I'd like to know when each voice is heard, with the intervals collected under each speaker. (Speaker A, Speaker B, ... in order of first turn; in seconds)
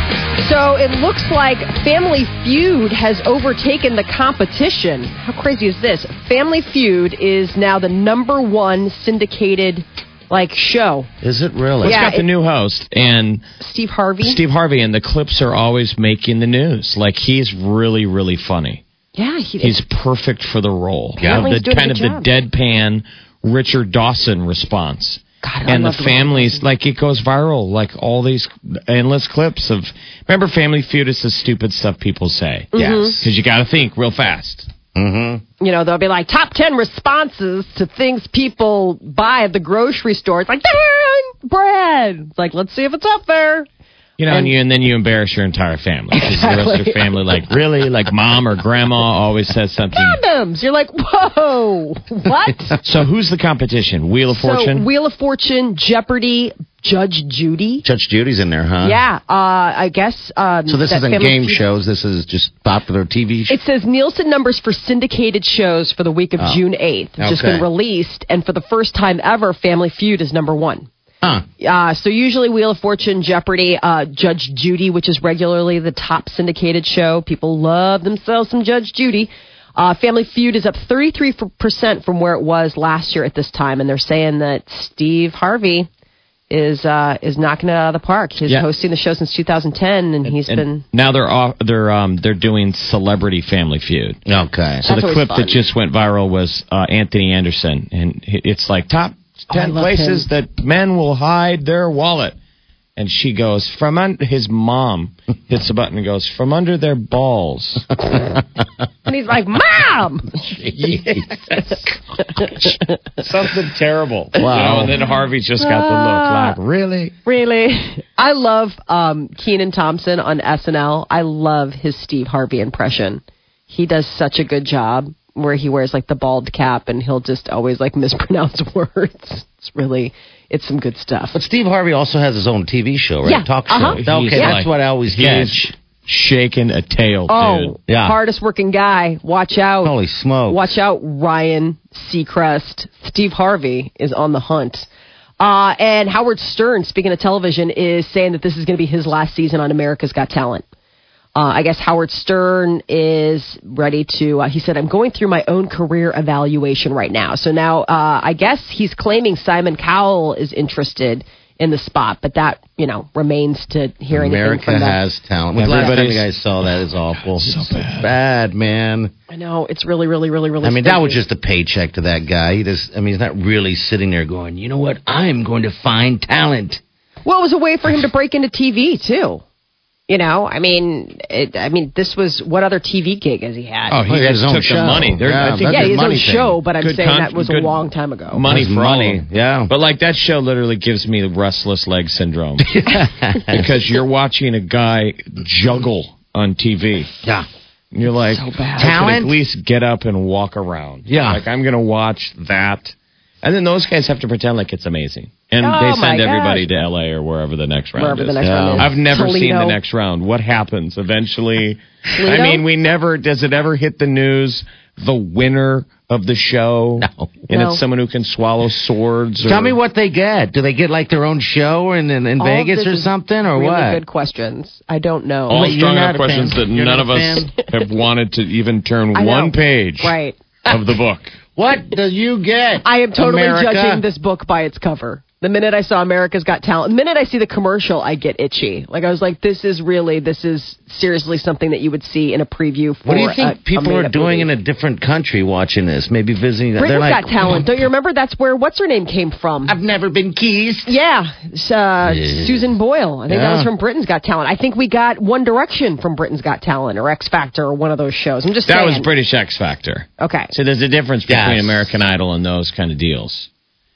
Speaker A: 0.4-11.1, 11.8-12.3, 13.6-14.4, 19.2-19.8, 21.2-22.3, 25.4-26.6, 32.7-33.2, 35.6-43.7, 46.1-47.1, 49.9-52.8, 54.4-57.9, 58.8-61.6, 63.5-70.9, 71.6-85.9, 86.5-90.8, 94.9-95.6, 99.5-100.2, 109.1-110.5, 115.6-116.6, 117.2-131.4, 133.2-134.6, 137.3-139.9, 140.5-144.9, 145.4-150.7, 151.3-165.0, 169.3-171.2, 177.2-179.4, 180.1-184.0, 185.6-188.4, 198.1-199.0, 205.6-206.7, 208.0-209.8, 212.1-212.6, 217.5-217.8, 222.4-225.7, 229.2-230.7, 232.8-244.5, 246.8-249.8, 250.9-259.1, 260.2-260.5
Speaker B: 11.2-12.1, 21.2-21.5, 32.8-33.3, 35.0-35.4, 57.8-59.0, 60.7-63.6, 67.2-67.7, 94.3-94.8, 110.6-111.5, 114.4-115.0, 131.3-135.7, 137.9-138.2, 139.8-140.8, 164.1-169.1, 170.6-176.8, 184.1-186.6, 188.5-189.7, 192.6-193.7, 198.8-199.4, 201.1-201.4, 208.4-208.9, 217.0-217.3, 219.4-224.0, 225.5-227.5, 231.6-234.0, 243.1-247.7, 249.7-251.0, 252.0-252.7, 253.3-253.7, 261.3-262.0
Speaker C: 11.8-13.4, 14.2-18.8, 19.6-34.7, 44.2-50.2, 52.8-54.9, 90.2-94.2, 94.8-102.4, 103.0-107.9, 113.2-117.2, 134.0-137.8, 165.6-166.3, 167.3-168.1, 183.9-192.7, 193.5-197.1, 197.9-219.8, 225.5-230.2, 230.7-231.3, 258.7-263.5